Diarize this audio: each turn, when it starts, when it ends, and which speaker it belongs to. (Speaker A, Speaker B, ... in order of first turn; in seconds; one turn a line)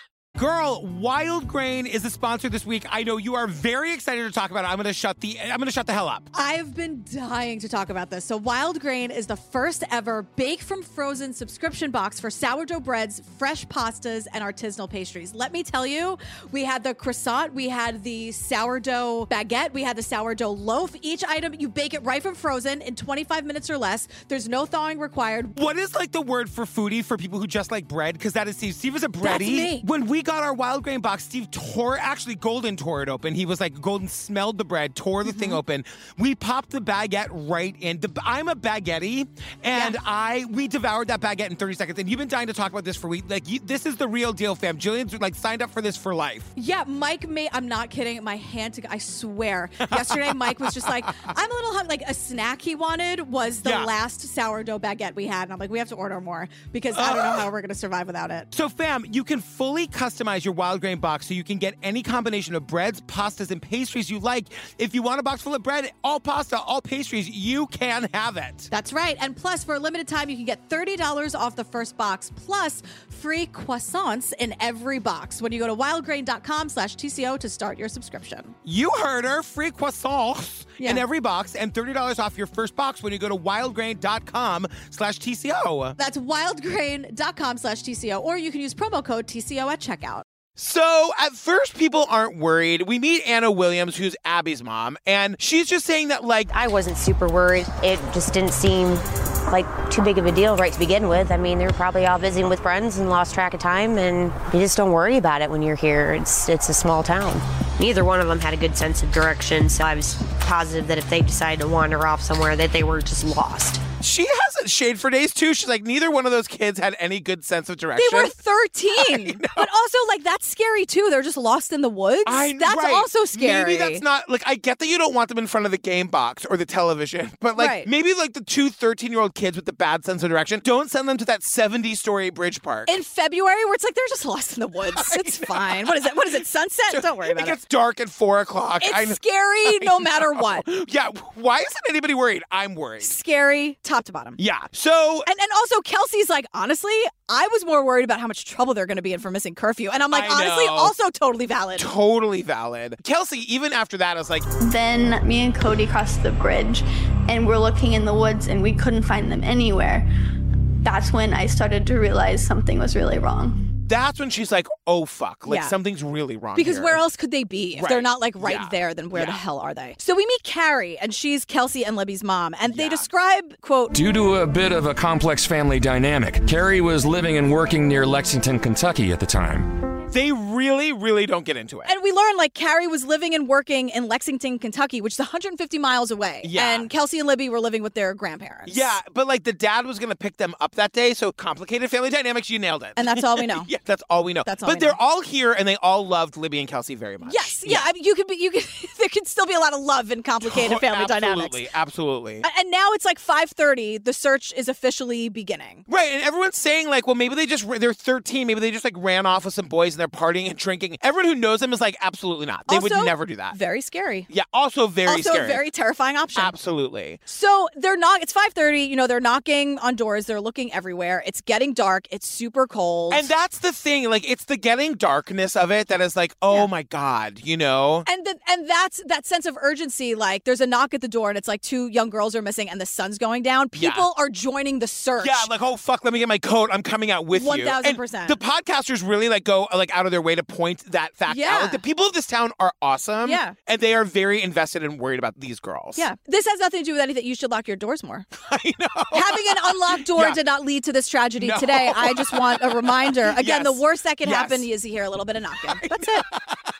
Speaker A: 0.4-6.3
Speaker B: 6.3-25.6
Speaker A: 25.5-46.5
Speaker B: 29.2-29.9
Speaker B: 35.2-35.6
Speaker B: 46.5-58.5
Speaker A: 49.9-51.3
Speaker A: 53.6-53.9
Speaker A: 56.9-57.5
Speaker A: 58.5-68.7
Speaker B: 68.7-78.5
Speaker A: 78.6-86.0
Speaker B: 86.0-90.2
Speaker A: 90.6-96.5
Speaker C: 96.5-113.8
Speaker A: 114.0-118.3
Speaker B: 118.0-124.0
Speaker A: 119.0-119.7
Speaker A: 122.2-132.9
Speaker B: 127.6-127.9
Speaker B: 132.9-137.6
Speaker A: 134.9-135.9
Speaker A: 136.9-143.1
Speaker B: 138.8-140.7
Speaker B: 143.0-144.4
Speaker A: 144.4-145.3
Speaker B: 145.3-151.9
Speaker A: 150.1-150.9
Speaker A: 151.8-154.4
Speaker D: 154.6-160.1
Speaker D: 160.8-163.6
Speaker A: 163.9-167.0
Speaker B: 165.5-165.7
Speaker B: 166.5-173.9
Speaker A: 167.8-169.4
Speaker A: 172.7-173.1
Speaker E: 173.9-179.7
Speaker A: 180.1-181.9
Speaker B: 181.9-188.9
Speaker A: 186.4-186.9
Speaker A: 188.7-197.9
Speaker B: 193.0-193.7
Speaker B: 194.4-195.0
Speaker B: 197.2-201.6
Speaker A: 200.4-202.4
Speaker B: 202.4-205.8
Speaker A: 205.9-213.6
Speaker B: 212.7-214.3
Speaker A: 214.3-215.6
Speaker B: 215.1-216.5
Speaker A: 216.3-217.2
Speaker B: 217.3-223.3
Speaker A: 223.1-228.1
Speaker B: 228.1-235.5
Speaker A: 233.8-234.1
Speaker A: 235.2-246.0
Speaker B: 237.3-238.4
Speaker B: 241.3-241.8
Speaker B: 243.2-243.5
Speaker B: 245.9-248.3
Speaker A: 248.4-250.4
Speaker B: 249.1-256.2
Speaker A: 251.4-254.7
Speaker A: 255.8-256.4